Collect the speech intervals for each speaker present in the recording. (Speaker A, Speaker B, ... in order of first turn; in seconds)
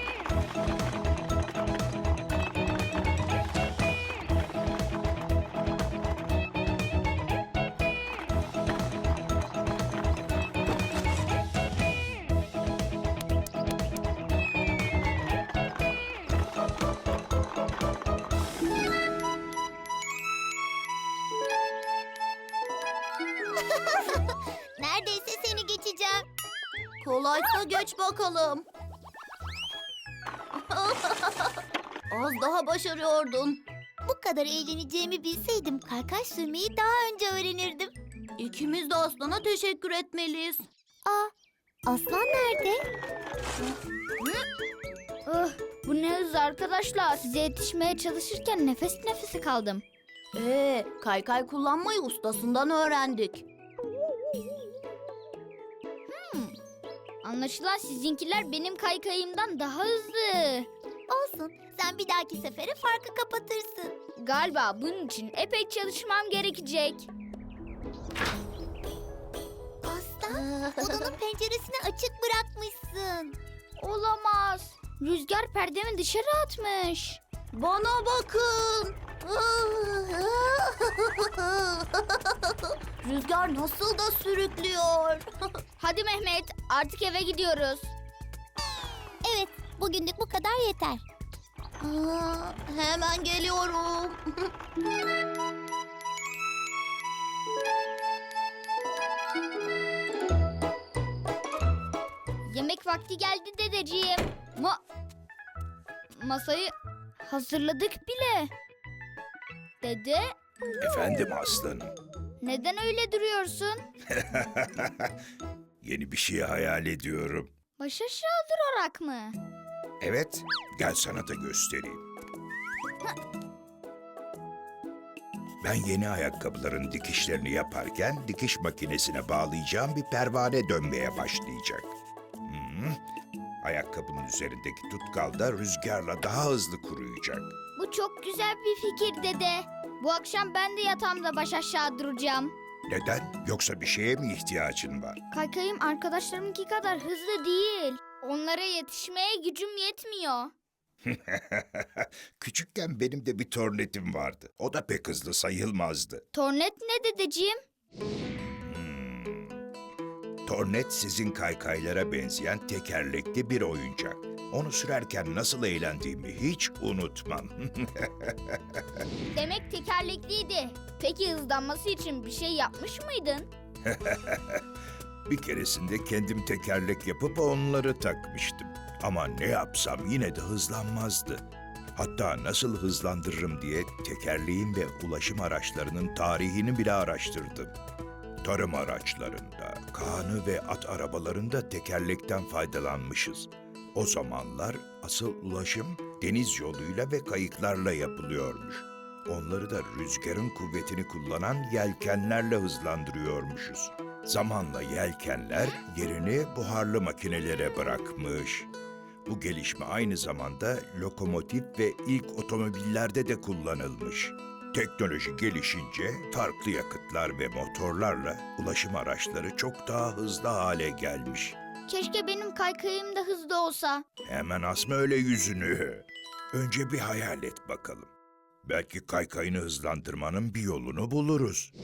Speaker A: 23.8-24.1, 24.8-26.3, 34.0-37.9, 41.1-41.3, 41.9-42.9, 61.1-64.0, 69.8-73.4, 89.2-91.0
Speaker B: 27.0-28.7, 30.7-31.6, 32.1-33.6, 38.4-40.7, 50.4-53.5, 70.3-71.1, 77.5-85.2, 91.8-94.5
Speaker C: 44.2-44.5, 45.3-49.8, 56.1-56.6, 57.2-60.7, 64.2-67.1, 73.8-77.2, 85.8-87.9, 102.5-104.8, 106.1-108.5, 109.8-110.3, 112.4-113.8, 117.8-119.4, 137.8-142.5, 145.3-150.5, 156.3-157.6, 169.3-173.5, 221.9-224.1
Speaker D: 110.8-111.9, 114.1-115.1, 115.8-117.5, 120.0-122.0, 125.6-131.9, 132.4-133.0, 133.6-137.6, 142.9-145.2, 151.1-156.2, 158.6-159.6, 160.5-169.0, 173.9-174.6, 175.3-181.4, 182.0-187.7, 188.4-208.7, 209.3-221.6, 224.2-228.1, 228.6-231.7